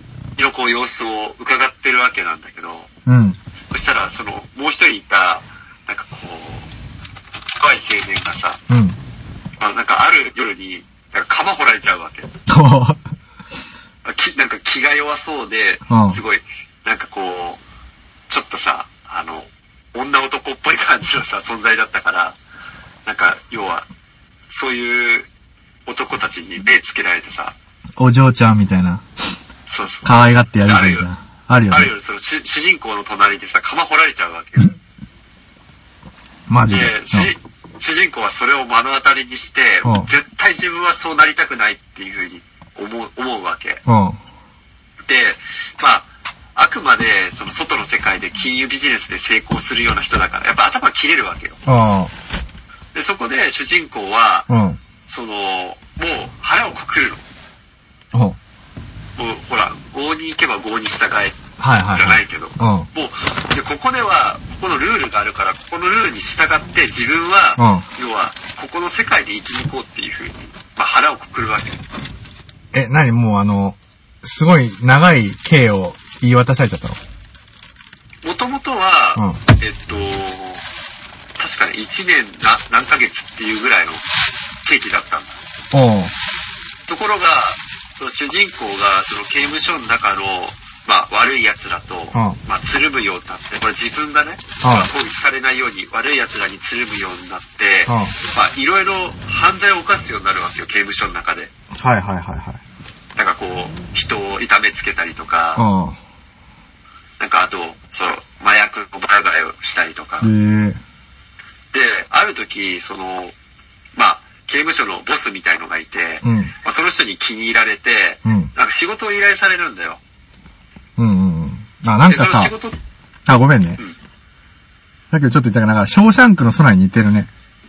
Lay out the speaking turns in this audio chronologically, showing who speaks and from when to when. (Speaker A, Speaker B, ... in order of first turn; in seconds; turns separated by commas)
Speaker A: 0.4-2.9, Speaker B: 3.0-3.4, Speaker A: 3.7-6.7, Speaker A: 7.6-8.6, Speaker B: 8.7-9.0, Speaker A: 9.6-12.3, Speaker B: 12.5-13.0, Speaker A: 14.0-17.6, Speaker B: 15.9-16.2, Speaker A: 18.3-22.4, Speaker A: 23.1-23.9, Speaker A: 24.5-25.3, Speaker A: 25.9-27.5, Speaker B: 28.0-29.0, Speaker A: 29.7-31.1, Speaker B: 30.0-31.9, Speaker A: 31.7-34.7, Speaker B: 36.5-37.3, Speaker A: 36.7-43.8, Speaker B: 39.8-40.1, Speaker B: 43.9-44.2, Speaker A: 45.1-51.6, Speaker B: 51.6-52.1, Speaker A: 52.9-54.5, Speaker B: 54.5-54.8, Speaker A: 55.0-57.2, Speaker A: 59.1-71.8, Speaker B: 61.6-62.9, Speaker B: 67.6-67.8, Speaker B: 72.7-77.0, Speaker A: 78.2-80.6, Speaker A: 81.4-84.0, Speaker A: 84.6-85.4, Speaker B: 85.7-86.1, Speaker A: 86.9-101.5, Speaker B: 92.1-92.4, Speaker B: 94.6-94.9, Speaker B: 97.9-98.1, Speaker B: 101.7-102.6, Speaker A: 103.2-105.6, Speaker B: 105.5-106.0, Speaker A: 107.2-110.3, Speaker B: 110.2-110.8, Speaker A: 111.7-113.3, Speaker A: 114.0-120.0, Speaker B: 116.2-116.5, Speaker B: 118.2-118.5, Speaker B: 121.0-122.5, Speaker A: 122.0-122.8, Speaker B: 123.2-123.8, Speaker B: 125.1-127.3